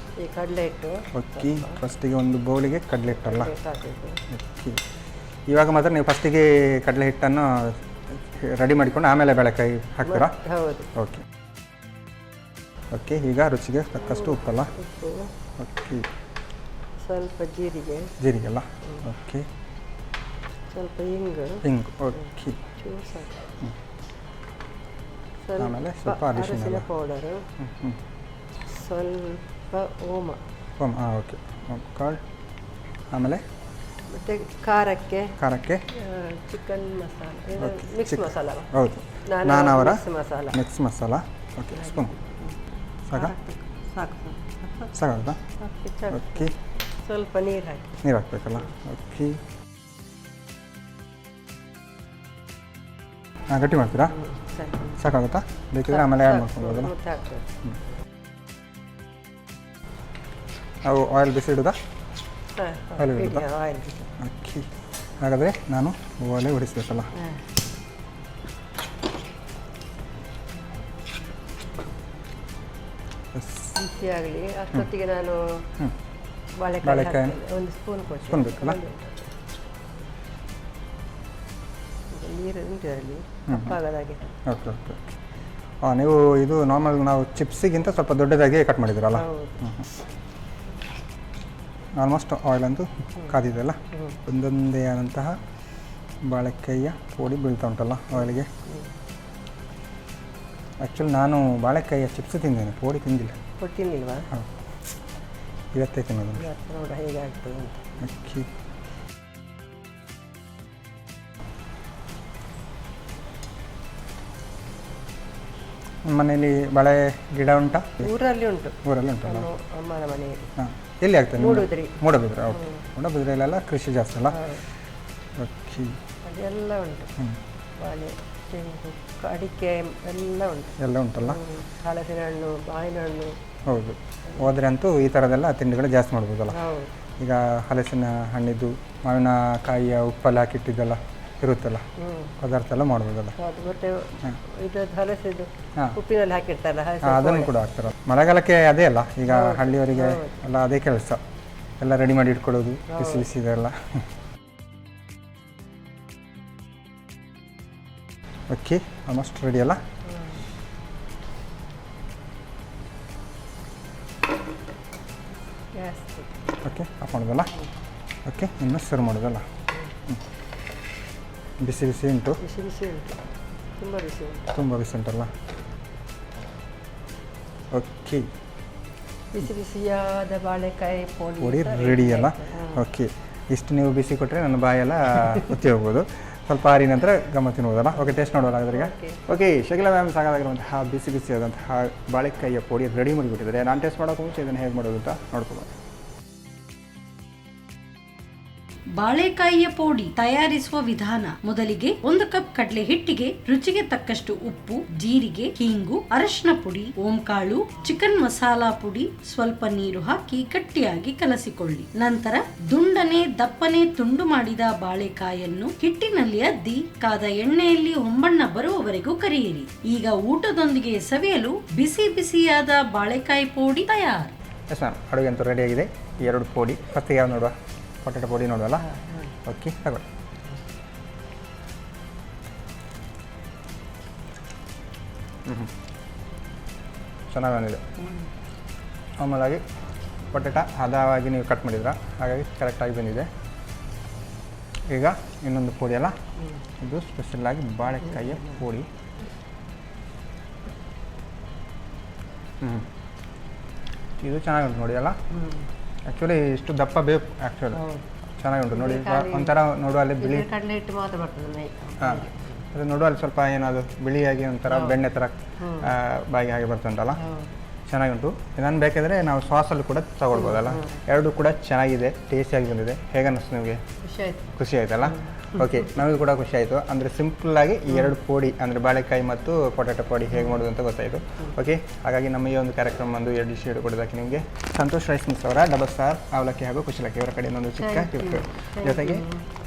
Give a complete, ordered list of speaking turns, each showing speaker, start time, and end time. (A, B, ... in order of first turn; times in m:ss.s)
0:00.2-0:01.8 A
0:01.1-0:03.5 B
0:03.3-0:04.2 A
0:04.3-0:04.8 B
0:05.5-0:10.4 B
0:10.1-0:10.9 A
0:11.0-0:11.2 B
0:12.9-0:14.7 B
0:14.1-0:15.3 A
0:15.6-0:16.1 B
0:17.0-0:18.1 A
0:18.2-0:19.5 B
0:20.7-0:21.6 A
0:21.6-0:22.6 B
0:22.8-0:23.4 A
0:25.4-0:27.5 A
0:25.6-0:26.9 B
0:27.6-0:28.0 B
0:28.7-0:30.4 A
0:30.8-0:32.2 B
0:33.1-0:33.4 B
0:34.1-0:35.4 A
0:35.4-0:35.8 B
0:35.9-0:38.7 A
0:37.6-0:42.1 B
0:39.2-0:40.6 A
0:41.8-0:42.6 A
0:43.1-0:43.3 B
0:43.1-0:44.9 A
0:44.9-0:45.4 B
0:45.6-0:48.0 A
0:46.1-0:46.5 B
0:48.0-0:49.4 B
0:53.5-0:54.2 B
0:54.2-0:55.0 A
0:55.0-0:56.9 B
0:55.9-0:57.5 A
1:00.8-1:01.8 B
1:02.6-1:04.1 A
1:03.0-1:03.4 B
1:04.2-1:04.7 B
1:05.2-1:07.1 B
1:13.3-1:13.8 B
1:13.8-1:15.7 A
1:16.6-1:19.3 A
1:16.8-1:17.4 B
1:18.2-1:18.8 B
1:22.1-1:24.3 A
1:24.5-1:25.2 B
1:25.8-1:29.9 B
1:29.2-1:29.6 A
1:32.0-1:35.4 B
1:36.2-1:38.5 B
1:40.8-1:43.4 B
1:43.6-1:44.3 A
1:45.7-1:46.4 B
1:46.4-1:48.0 A
1:48.0-1:48.5 B
1:56.0-1:58.1 B
1:58.0-2:00.6 A
1:58.8-1:59.5 B
2:00.6-2:04.4 B
2:01.4-2:02.0 A
2:02.6-2:02.8 A
2:04.4-2:04.6 A
2:05.4-2:06.0 B
2:06.2-2:07.1 A
2:07.8-2:13.4 A
2:10.8-2:11.4 B
2:13.7-2:16.6 B
2:16.5-2:16.9 A
2:17.2-2:21.9 B
2:22.0-2:22.4 A
2:22.4-2:23.4 B
2:23.4-2:27.5 A
2:27.0-2:31.2 B
2:29.3-2:30.4 A
2:31.8-2:34.0 B
2:32.9-2:33.3 A
2:38.5-2:39.8 B
2:45.8-2:46.4 A
2:46.6-2:47.5 B
2:48.2-2:49.5 B
2:51.6-2:52.4 B
2:52.4-2:53.2 A
2:53.8-2:54.5 A
2:54.5-2:55.3 B
2:57.7-2:58.3 B
2:59.3-3:02.8 A
3:01.4-3:15.7 B
3:08.7-3:09.2 A
3:19.0-3:44.3 C
3:44.7-3:48.8 B
3:48.9-3:49.3 A
3:49.4-3:50.0 B
3:55.5-3:55.7 B
3:57.3-3:57.8 B
3:59.2-3:59.6 B
4:00.3-4:03.3 B
4:04.9-4:06.2 B
4:06.8-4:08.9 B
4:12.6-4:12.9 B
4:14.2-4:15.2 B
4:15.3-4:15.6 A
4:16.1-4:17.8 B
4:18.4-4:20.5 B
4:18.7-4:19.6 A
4:20.2-4:22.6 A
4:22.0-4:27.2 B
4:24.7-4:25.0 A
4:25.6-4:25.9 A
4:27.2-4:27.5 A
4:27.9-4:33.8 B
4:30.4-4:31.0 A
4:34.0-4:34.5 A
4:34.6-4:49.3 B
4:35.2-4:35.6 A
4:47.8-4:49.5 A